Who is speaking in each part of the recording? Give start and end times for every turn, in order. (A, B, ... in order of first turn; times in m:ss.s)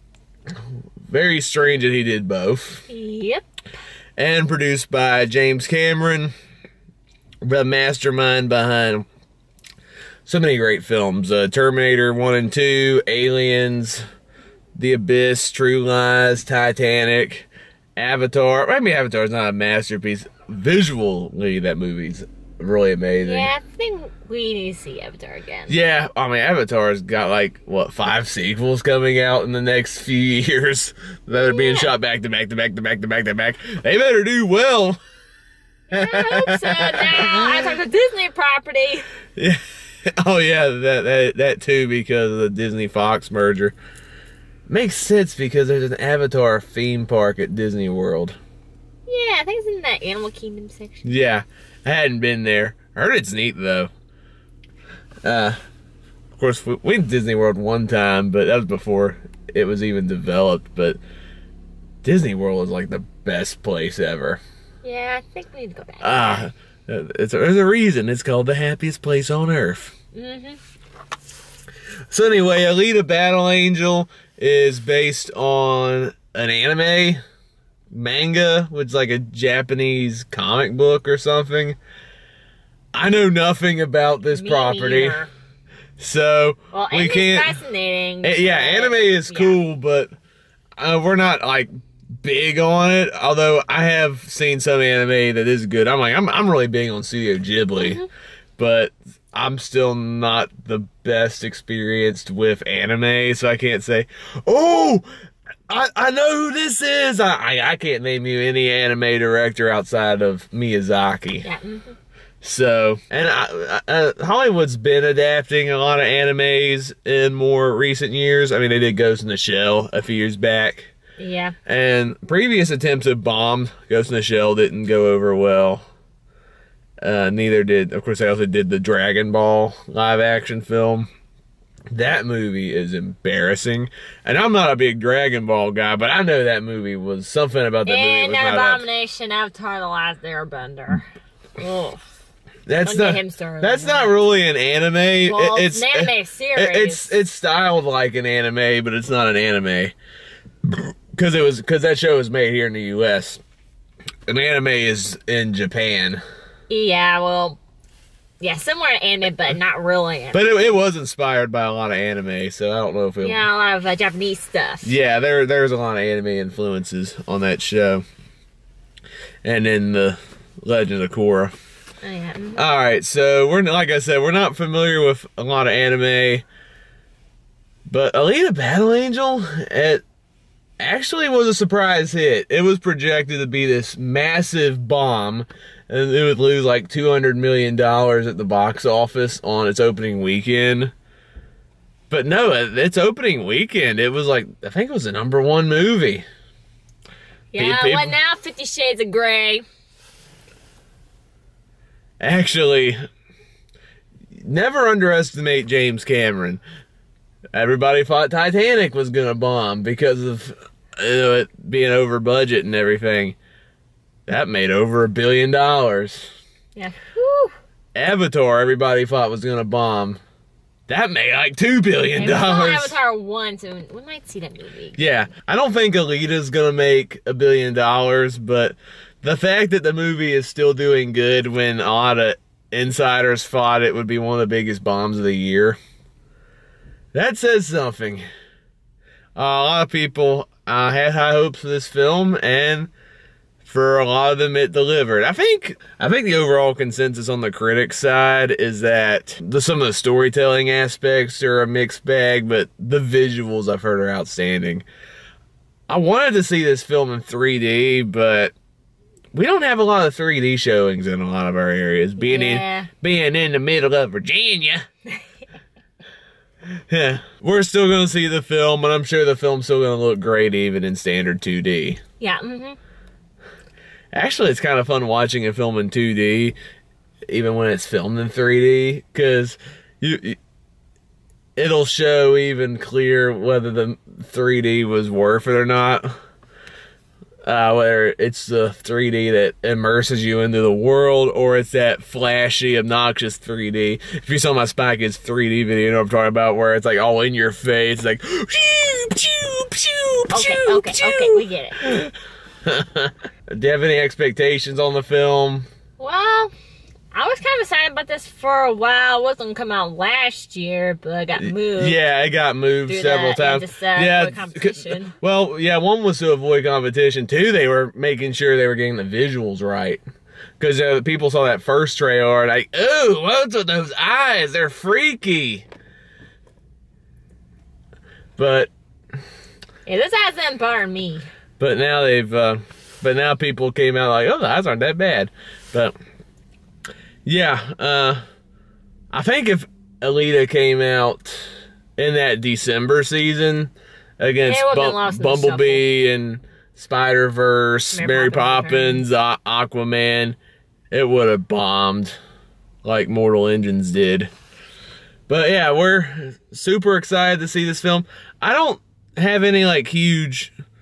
0:01.1-0:02.8 A
0:02.9-0:03.4 B
0:04.2-0:06.3 A
0:07.4-0:09.0 A
0:10.2-0:14.0 A
0:14.7-0:23.5 A
0:23.2-0:25.7 B
0:25.7-0:35.0 A
0:31.3-0:31.9 B
0:35.9-0:39.0 B
0:35.9-0:37.5 A
0:39.4-0:43.8 A
0:44.7-0:48.4 A
0:49.1-0:51.0 B
0:51.0-0:53.9 A
0:55.2-0:55.6 A
0:56.4-1:01.0 A
1:02.0-1:04.4 A
1:04.8-1:06.4 B
1:06.0-1:09.9 A
1:10.1-1:10.6 B
1:12.1-1:17.2 A
1:17.9-1:21.8 A
1:22.9-1:25.2 A
1:24.3-1:25.3 B
1:26.0-1:27.6 A
1:26.7-1:29.6 B
1:28.2-1:30.1 A
1:30.8-1:31.7 A
1:32.2-1:38.0 A
1:37.8-1:38.1 B
1:38.6-1:45.0 A
1:45.7-1:51.5 A
1:51.4-1:51.9 B
1:52.4-2:00.9 A
2:01.2-2:01.5 B
2:01.7-2:05.8 A
2:07.0-2:11.1 A
2:11.9-2:18.8 A
2:17.8-2:21.0 B
2:21.6-2:22.0 B
2:22.6-2:29.9 A
2:22.8-2:24.1 B
2:25.2-2:27.1 B
2:30.7-2:33.4 A
2:34.3-2:36.2 A
2:36.7-2:37.6 B
2:38.4-2:40.4 B
2:40.3-2:43.4 A
2:43.2-2:44.9 B
2:44.8-2:48.0 A
2:49.4-2:51.5 A
2:52.0-2:52.6 B
2:52.6-2:56.4 A
2:57.9-3:00.0 A
3:00.8-3:10.9 A
3:12.1-3:16.2 A
3:17.5-3:19.6 B
3:17.6-3:18.2 A
3:22.2-3:23.0 A
3:24.4-3:26.6 A
3:27.5-3:33.4 A
3:34.3-3:36.3 A
3:36.7-3:37.5 B
3:37.9-3:40.2 A
3:40.9-3:43.0 A
3:42.1-3:45.0 B
3:45.0-3:55.8 A
3:57.1-3:58.2 A
3:59.4-4:02.9 A
4:03.6-4:14.8 A
4:15.9-4:18.5 A
4:19.3-4:24.8 A
4:22.2-4:22.9 B
4:26.9-4:32.0 A
4:32.2-4:32.8 B
4:34.1-4:36.6 A
4:37.3-4:40.4 A
4:41.6-4:46.2 A
4:47.4-5:02.1 A
5:00.3-5:01.8 B
5:02.6-5:05.6 A
5:06.0-5:06.5 B
5:07.1-5:12.0 B
5:11.4-5:20.0 A
5:12.9-5:15.1 B
5:20.6-5:25.6 A
5:28.4-5:28.7 A
5:29.8-5:31.3 B
5:31.6-5:36.0 A
5:37.2-5:38.2 A
5:39.1-5:50.4 A
5:44.4-5:45.8 B
5:47.9-5:49.0 B
5:50.9-5:52.2 A
5:52.8-5:54.3 A
5:55.3-6:00.5 A